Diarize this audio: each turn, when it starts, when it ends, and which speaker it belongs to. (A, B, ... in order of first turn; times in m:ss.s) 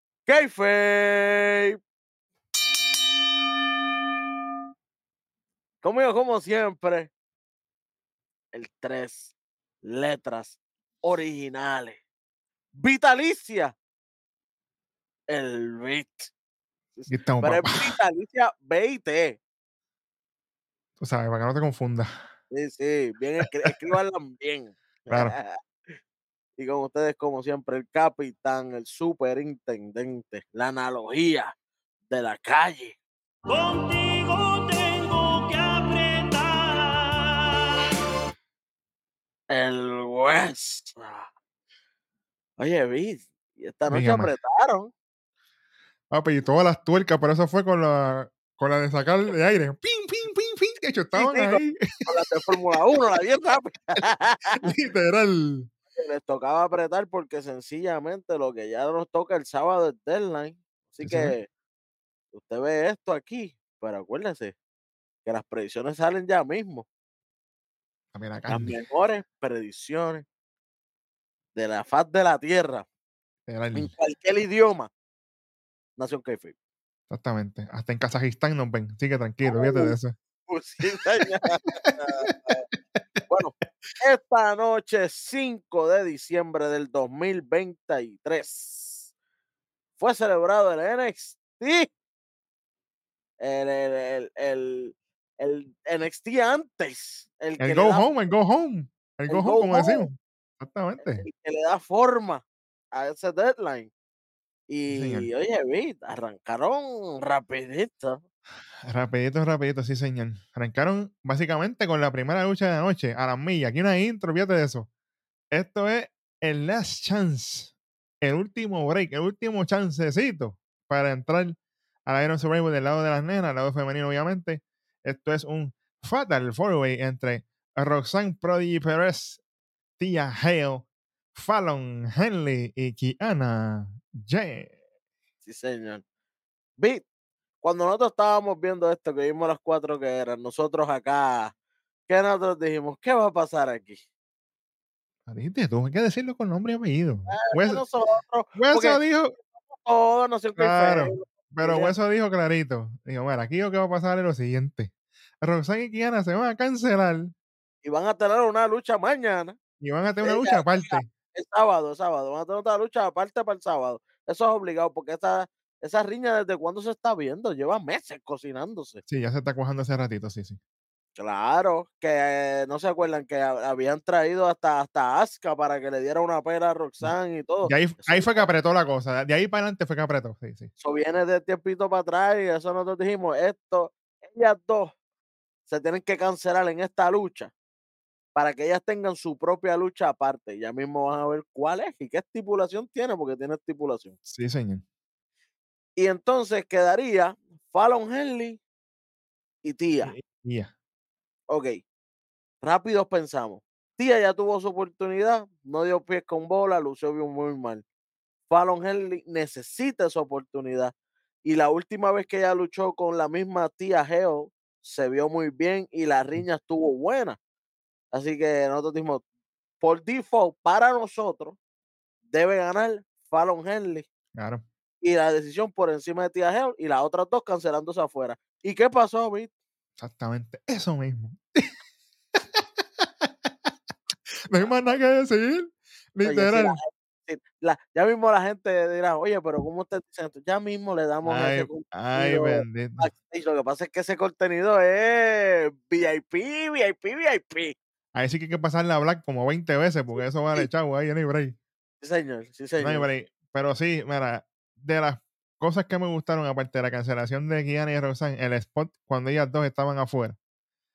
0:00.3-0:01.8 A
0:05.8-0:07.1 A
0:08.5-0:12.0 A
0:12.8-0:13.7 A
0:15.3-0:16.3 A
0:17.0-0:19.4 A
0:17.1-0:17.9 B
0:21.0-0:22.1 B
0:22.5-0:26.0 A
0:26.6-0:31.5 A
0:32.1-0:33.0 A
0:33.5-0:37.7 C
0:39.5-0:41.3 A
0:42.6-0:44.9 A
0:43.9-0:44.3 B
0:46.1-0:52.0 B
0:51.1-0:54.7 A
0:54.6-0:55.7 B
0:56.0-1:01.5 A
1:01.0-1:01.3 B
1:02.3-1:04.5 A
1:05.2-1:06.9 A
1:08.1-1:08.8 B
1:08.5-1:10.2 A
1:11.6-1:12.8 A
1:13.5-1:13.9 B
1:13.7-1:14.9 A
1:16.0-1:16.6 A
1:17.1-1:20.1 B
1:19.4-1:20.0 A
1:20.5-1:22.6 A
1:21.8-1:23.2 B
1:23.3-1:29.1 A
1:30.0-1:31.9 A
1:33.4-1:38.1 A
1:37.6-1:41.2 B
1:39.3-1:40.1 A
1:41.0-1:43.9 A
1:44.7-1:48.2 A
1:44.9-1:45.3 B
1:48.8-1:54.9 B
1:55.5-2:09.4 B
2:10.0-2:14.7 B
2:15.4-2:16.0 A
2:16.8-2:17.0 A
2:17.6-2:21.5 A
2:22.1-2:24.0 A
2:25.3-2:27.8 B
2:27.3-2:29.0 A
2:28.6-2:29.3 B
2:29.7-2:31.9 A
2:30.6-2:37.3 B
2:37.8-2:39.6 A
2:39.8-2:41.1 B
2:40.2-2:49.0 A
2:49.1-2:50.6 B
2:51.2-2:58.5 A
2:57.6-3:00.7 B
3:00.8-3:04.9 A
3:05.7-3:07.5 A
3:08.3-3:14.2 A
3:14.2-3:14.8 B
3:16.0-3:18.6 A
3:19.6-3:20.1 A
3:20.0-3:20.7 B
3:21.5-3:21.8 A
3:22.6-3:27.8 A
3:28.5-3:30.9 A
3:31.4-3:37.4 A
3:38.1-3:39.2 A
3:39.8-3:41.6 A
3:42.3-3:44.1 A
3:44.4-3:44.6 B
3:45.0-3:49.5 A
3:50.0-3:51.7 B
3:52.5-3:53.5 B
3:54.5-3:56.8 B
3:56.2-4:07.7 A
4:01.3-4:03.1 B
4:08.2-4:11.6 B
4:12.0-4:13.1 A
4:12.8-4:20.4 B